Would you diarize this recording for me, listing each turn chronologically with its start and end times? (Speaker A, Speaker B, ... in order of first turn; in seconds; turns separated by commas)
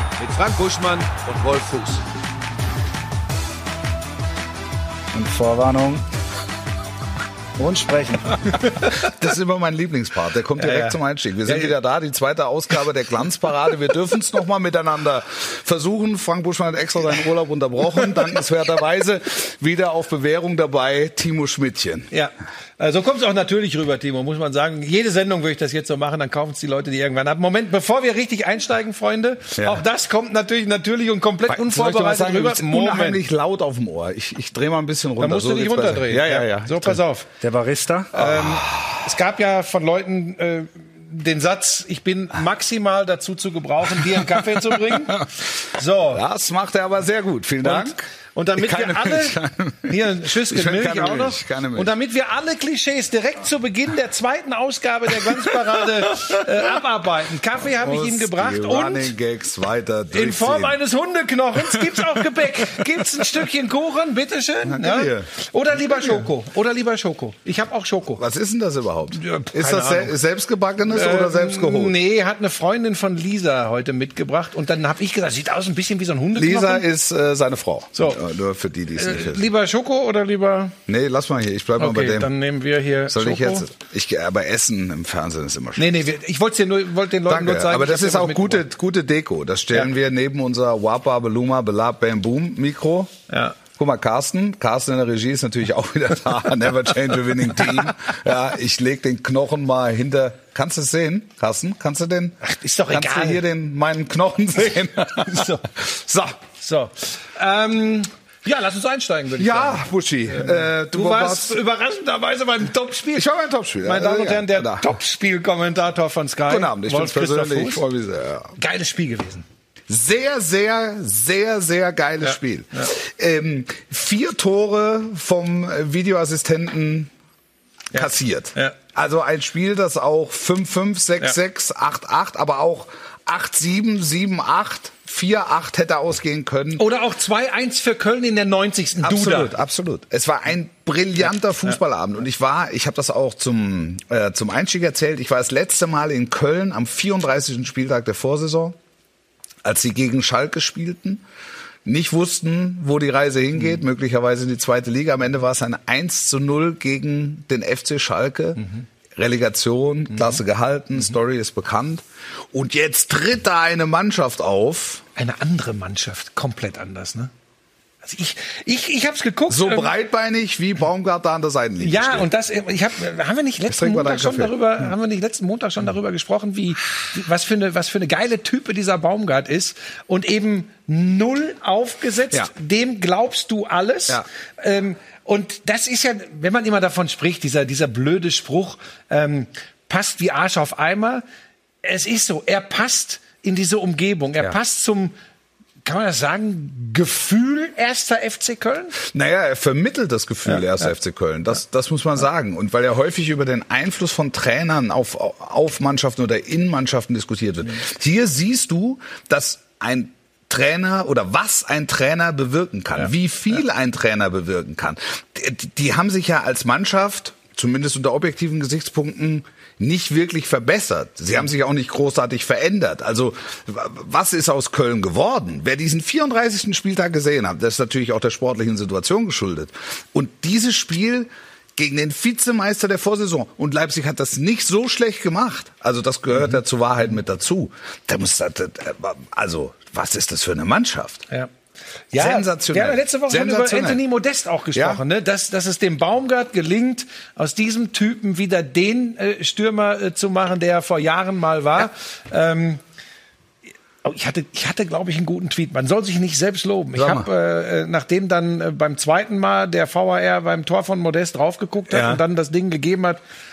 Speaker A: 0.2-2.0, Speaker B: 5.1-6.0, Speaker B: 7.6-8.7, Speaker C: 9.0-22.1, Speaker A: 10.6-11.7, Speaker A: 22.1-33.2, Speaker C: 29.6-29.8, Speaker C: 31.5-37.0, Speaker A: 35.2-37.3, Speaker B: 37.4-38.1, Speaker A: 38.1-46.2, Speaker C: 38.2-39.1, Speaker C: 44.1-45.2, Speaker C: 46.1-51.9, Speaker A: 47.6-59.1, Speaker C: 57.8-60.8, Speaker A: 60.1-68.2, Speaker C: 64.6-65.3, Speaker C: 68.2-71.9, Speaker A: 69.1-70.2, Speaker A: 70.9-76.9, Speaker C: 76.3-79.5, Speaker A: 77.9-78.2, Speaker A: 79.0-80.8, Speaker C: 80.9-82.3, Speaker A: 81.8-83.7, Speaker C: 83.1-85.9, Speaker A: 85.8-88.7, Speaker C: 87.3-93.1, Speaker A: 93.3-93.6, Speaker C: 93.7-102.4, Speaker A: 102.4-103.4, Speaker C: 102.9-106.4, Speaker A: 105.2-105.7, Speaker A: 106.6-113.3, Speaker C: 109.4-111.6, Speaker C: 113.2-114.9, Speaker A: 113.8-117.8, Speaker C: 116.5-118.6, Speaker A: 118.6-119.5, Speaker C: 119.9-127.1, Speaker A: 122.2-122.9, Speaker A: 127.9-128.8, Speaker C: 127.9-136.8, Speaker A: 136.8-139.5, Speaker C: 139.0-148.8, Speaker C: 149.6-151.2, Speaker C: 151.8-158.6, Speaker C: 159.2-165.0, Speaker A: 165.2-167.3, Speaker A: 168.0-169.9, Speaker C: 169.5-172.3, Speaker A: 171.8-191.2, Speaker C: 173.7-174.6, Speaker A: 191.8-195.2, Speaker A: 195.8-199.0, Speaker C: 199.0-241.2, Speaker A: 242.1-252.8, Speaker C: 242.1-244.0, Speaker C: 244.7-245.0, Speaker A: 254.0-263.2, Speaker C: 256.9-257.3, Speaker C: 261.9-262.2